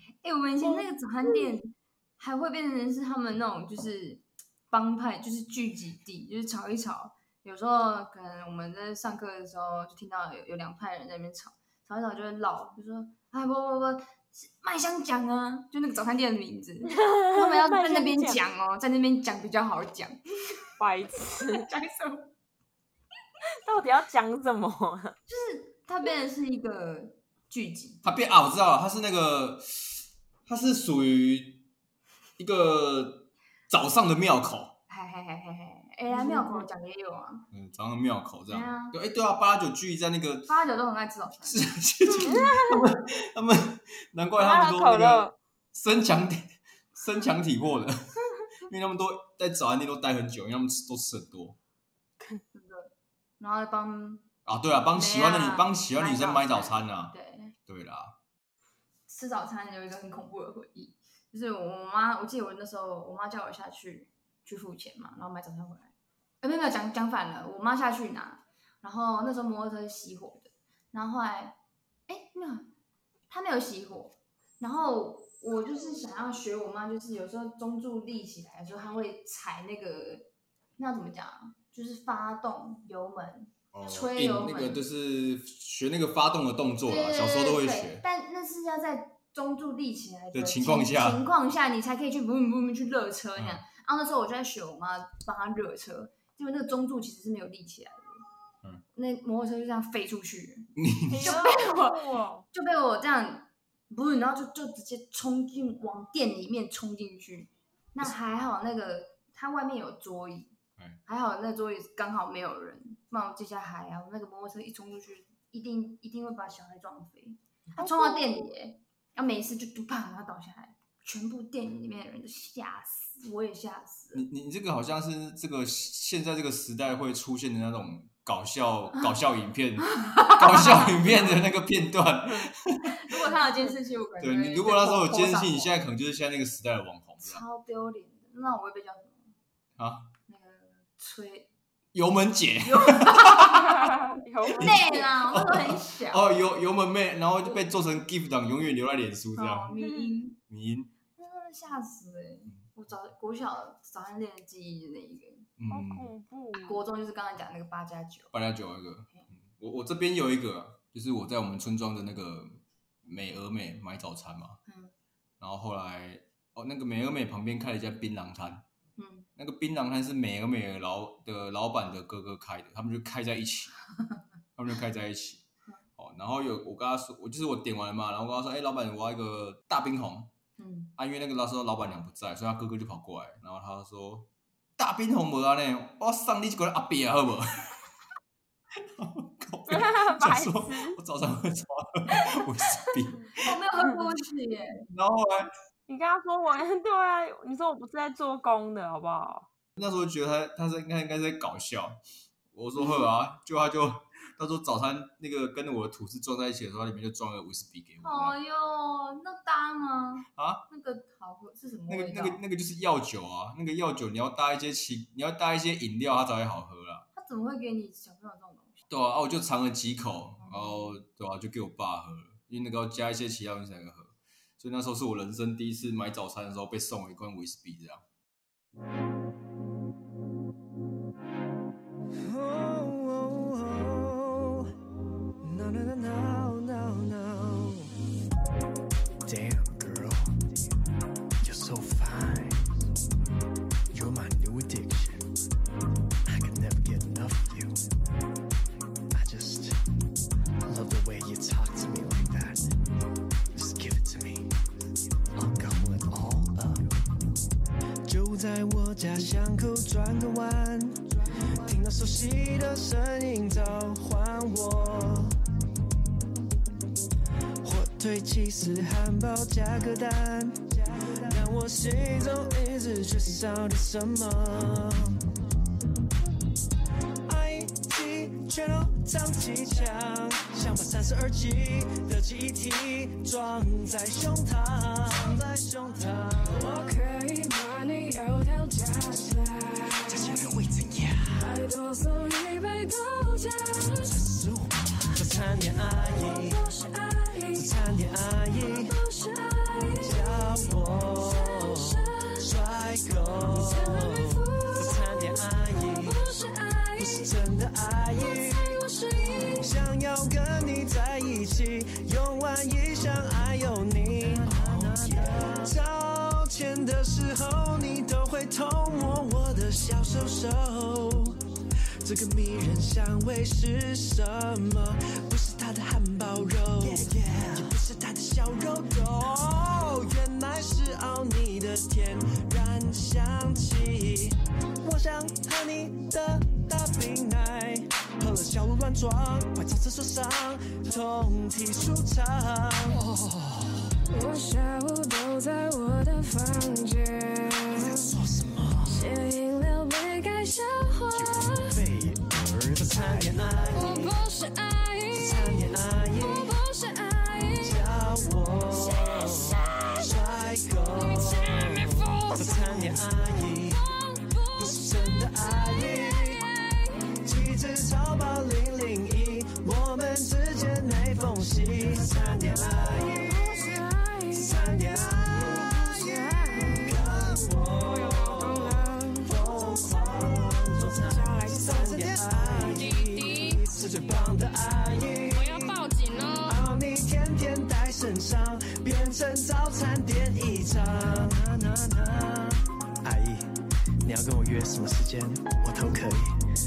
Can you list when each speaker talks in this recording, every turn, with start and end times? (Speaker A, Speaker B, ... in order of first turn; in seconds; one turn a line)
Speaker A: 0.2-20.2
Speaker B: 0.6-1.6
Speaker B: 16.9-18.4
Speaker B: 20.8-21.7
Speaker A: 21.4-22.3
Speaker B: 23.6-25.2
Speaker A: 25.3-28.1
Speaker C: 28.0-31.6
Speaker C: 32.4-34.8
Speaker A: 34.9-37.5
Speaker B: 36.1-36.7
Speaker C: 37.5-40.6
Speaker A: 38.5-39.0
Speaker A: 40.5-42.5
Speaker C: 41.5-51.6
Speaker B: 42.2-42.8
Speaker B: 44.4-45.4
Speaker A: 52.5-54.2
Speaker C: 54.5-57.1
Speaker A: 54.9-57.5
Speaker C: 57.7-58.1
Speaker A: 59.1-71.6
Speaker A: 72.1-72.7
Speaker A: 73.3-84.8
Speaker C: 83.7-88.0
Speaker A: 86.8-98.2
Speaker C: 90.3-91.2
Speaker C: 93.4-93.6
Speaker A: 99.0-110.5
Speaker C: 100.8-101.5
Speaker B: 101.2-102.5
Speaker A: 111.1-124.2
Speaker B: 117.8-118.5
Speaker C: 124.1-133.4
Speaker A: 129.9-131.4
Speaker A: 132.8-135.8
Speaker C: 134.2-137.4
Speaker A: 137.2-139.3
Speaker C: 139.8-140.1
Speaker A: 140.3-141.5
Speaker C: 141.9-143.7
Speaker A: 142.6-143.8
Speaker B: 143.6-145.2
Speaker C: 144.5-149.7
Speaker A: 144.6-146.3
Speaker A: 149.4-150.4
Speaker B: 149.7-150.1
Speaker C: 150.5-150.9
Speaker A: 151.2-155.5
Speaker C: 155.6-156.1
Speaker B: 155.7-156.8
Speaker A: 156.6-158.3
Speaker C: 158.3-164.6
Speaker A: 164.7-164.9
Speaker C: 165.4-168.7
Speaker A: 169.0-169.3
Speaker C: 169.4-173.8
Speaker C: 174.6-175.4
Speaker C: 176.0-180.3
Speaker A: 180.6-180.9
Speaker C: 181.0-187.8
Speaker C: 189.0-193.6
Speaker B: 189.7-191.0
Speaker A: 193.3-194.8
Speaker C: 194.9-195.5
Speaker B: 195.9-199.5
Speaker C: 199.8-202.0
Speaker C: 202.5-208.4
Speaker A: 202.8-203.1
Speaker A: 208.0-212.4
Speaker C: 210.3-210.7
Speaker C: 211.9-217.1
Speaker A: 217.2-218.8
Speaker C: 218.9-228.0
Speaker A: 220.4-221.0
Speaker D: 232.2-234.7
Speaker D: 235.4-237.9
Speaker D: 239.2-240.5
Speaker D: 241.4-242.8
Speaker D: 243.9-245.3
Speaker D: 246.3-247.9
Speaker D: 249.1-249.8
Speaker D: 250.7-252.7
Speaker D: 253.5-254.5
Speaker D: 255.3-257.0
Speaker D: 258.1-265.4
Speaker D: 267.6-275.3
Speaker D: 277.3-286.8
Speaker E: 286.6-290.2
Speaker D: 290.1-291.4
Speaker E: 291.4-294.0
Speaker D: 294.0-296.6
Speaker E: 296.1-297.6
Speaker D: 297.5-299.0
Speaker E: 299.0-300.1
Speaker D: 299.9-306.3
Speaker E: 303.6-304.8
Speaker E: 305.8-307.3
Speaker D: 307.0-308.8
Speaker E: 308.3-309.6
Speaker D: 309.4-321.4
Speaker D: 322.0-343.2
Speaker E: 344.2-348.0
Speaker D: 347.7-349.0
Speaker E: 348.9-351.6
Speaker D: 351.1-354.2
Speaker E: 353.8-355.2
Speaker D: 355.1-356.6
Speaker E: 356.3-357.6
Speaker D: 357.5-363.9
Speaker E: 361.2-362.7
Speaker E: 363.8-364.5
Speaker D: 364.5-366.5
Speaker D: 367.1-393.5
Speaker E: 373.4-376.8
Speaker E: 378.1-379.2
Speaker E: 381.2-381.9
Speaker E: 385.9-386.4
Speaker D: 394.0-396.3